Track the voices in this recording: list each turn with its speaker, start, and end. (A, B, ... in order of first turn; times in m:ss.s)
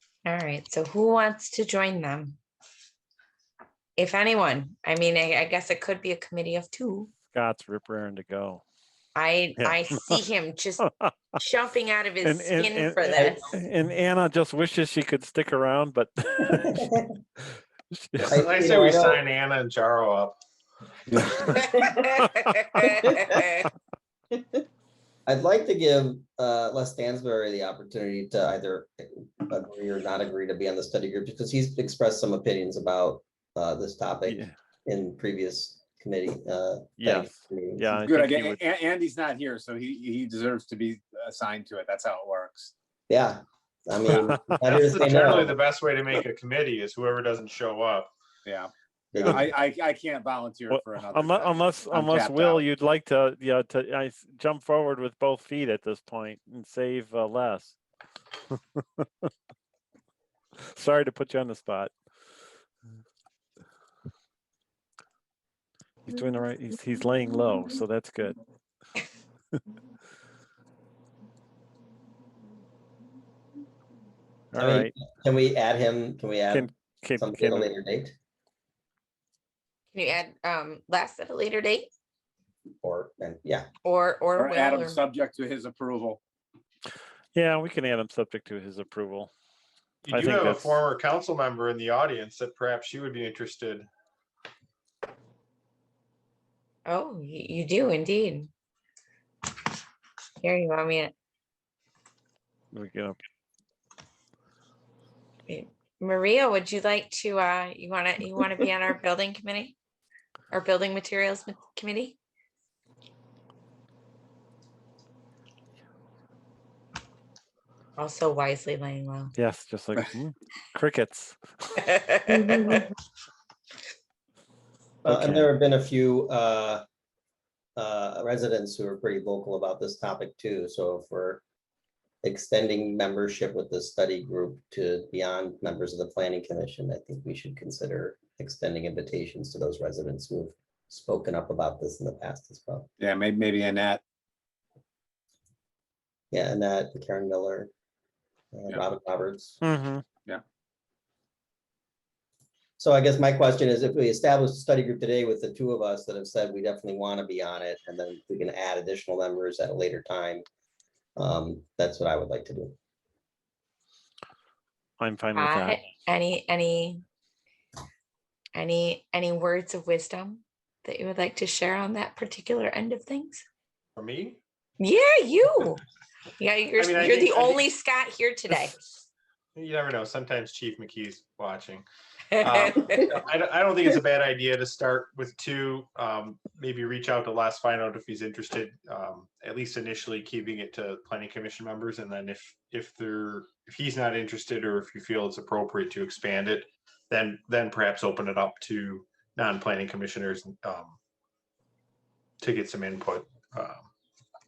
0:00.2-0:02.4 A
0:04.0-0:07.1 A
0:07.3-0:08.6 B
0:09.2-0:10.8 A
0:10.8-0:11.1 B
0:11.4-0:13.6 A
0:12.2-0:16.9 B
0:16.6-0:17.1 C
0:17.6-0:18.5 B
0:18.3-0:19.2 C
0:18.3-0:20.4 D
0:21.3-0:22.8 B
0:21.5-0:23.5 A
0:25.3-0:37.9 C
0:34.3-0:34.5 B
0:37.0-0:38.6 B
0:38.0-0:42.7 E
0:43.1-0:45.6 C
0:44.6-0:48.1 D
0:48.5-0:52.6 E
0:49.1-0:49.5 C
0:50.7-0:57.8 B
0:58.5-0:59.1 B
1:00.7-1:01.9 B
1:06.1-1:08.4 B
1:14.5-1:14.9 B
1:14.6-1:18.2 C
1:16.5-1:17.7 B
1:19.9-1:21.9 A
1:22.8-1:23.7 C
1:23.8-1:25.0 A
1:24.4-1:26.2 E
1:27.4-1:29.3 B
1:30.0-1:33.9 D
1:30.1-1:30.8 B
1:36.9-1:38.5 A
1:40.4-1:41.1 A
1:42.7-1:43.2 B
1:45.5-1:49.8 A
1:50.5-1:52.2 A
1:58.0-1:59.3 A
1:59.4-2:01.8 B
2:01.8-2:02.9 A
2:05.0-2:06.8 C
2:05.1-2:05.5 B
2:07.8-2:11.4 C
2:12.2-2:22.9 C
2:23.0-2:24.0 E
2:26.3-2:27.7 C
2:28.5-2:29.6 C
2:29.6-2:30.0 B
2:32.8-2:40.5 C
2:41.2-2:42.8 C
2:45.0-2:45.8 B
2:45.4-2:47.0 A
2:48.6-2:53.4 A
2:54.0-2:54.4 D
2:54.8-2:55.8 A
2:56.4-2:58.8 A
2:56.7-2:57.7 D
2:59.6-3:01.8 D
3:02.4-3:21.0 D
3:02.4-3:03.1 A
3:22.4-3:23.9 D